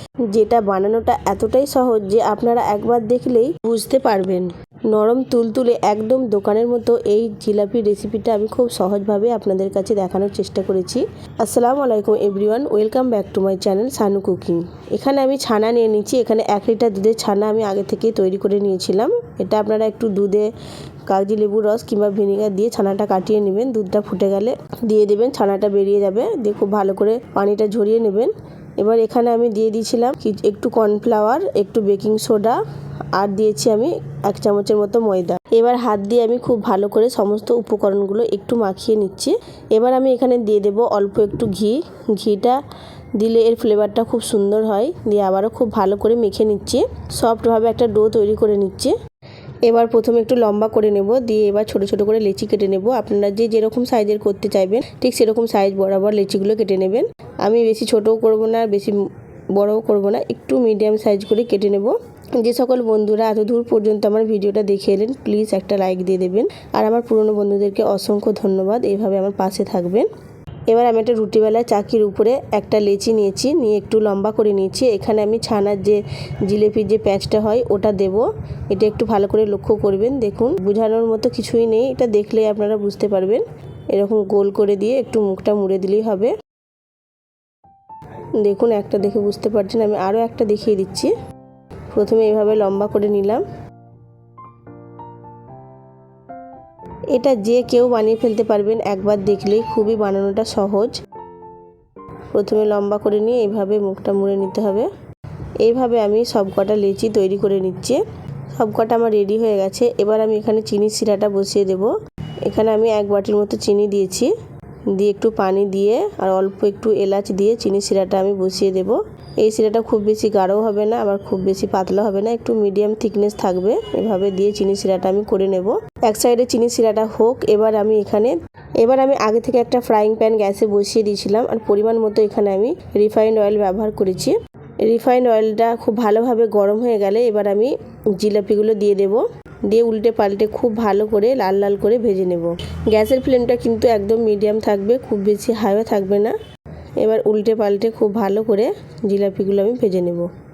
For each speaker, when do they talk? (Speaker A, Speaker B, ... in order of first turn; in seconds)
Speaker A: 0.3-20.5, 21.1-32.6, 33.1-42.6, 43.2-49.0, 49.6-59.0, 59.5-70.1, 70.7-86.3, 88.4-91.1, 91.9-93.4, 97.1-101.0, 102.3-104.9, 105.6-108.0, 108.5-111.9, 112.5-114.3, 115.0-146.4, 147.0-150.3